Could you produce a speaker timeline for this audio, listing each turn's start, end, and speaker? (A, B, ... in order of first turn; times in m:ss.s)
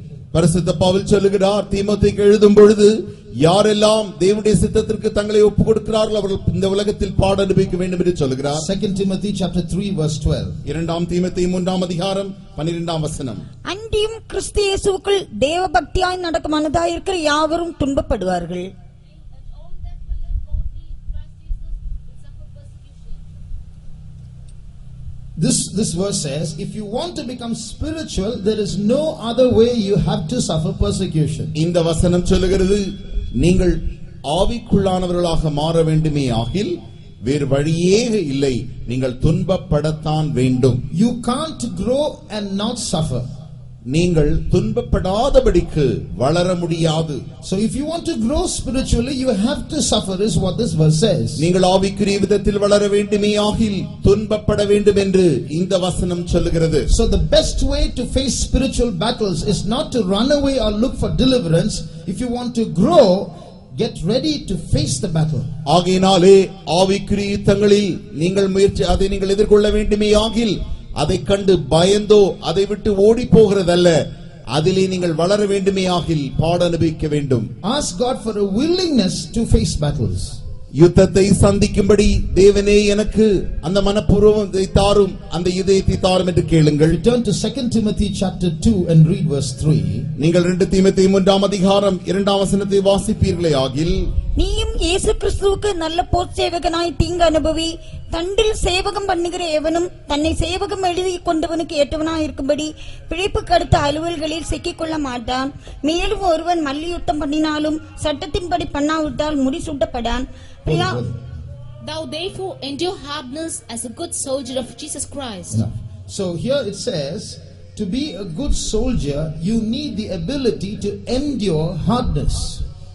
0:00.3-0:08.6 A
0:08.6-0:10.6 B
0:10.6-0:13.4 A
0:13.7-0:18.7 C
0:19.1-0:23.4 D
0:25.4-0:31.5 B
0:31.6-0:40.8 A
0:40.9-0:43.2 B
0:43.9-0:47.2 A
0:47.4-0:51.4 B
0:51.4-0:56.9 A
0:56.9-1:05.5 B
1:05.7-1:14.0 A
1:14.5-1:17.5 A
1:17.6-1:20.4 B
1:20.8-1:27.0 A
1:26.9-1:30.1 B
1:30.2-1:34.0 A
1:34.4-1:51.0 C
1:50.6-1:51.2 B
1:51.8-1:55.6 D
1:55.5-2:02.6 B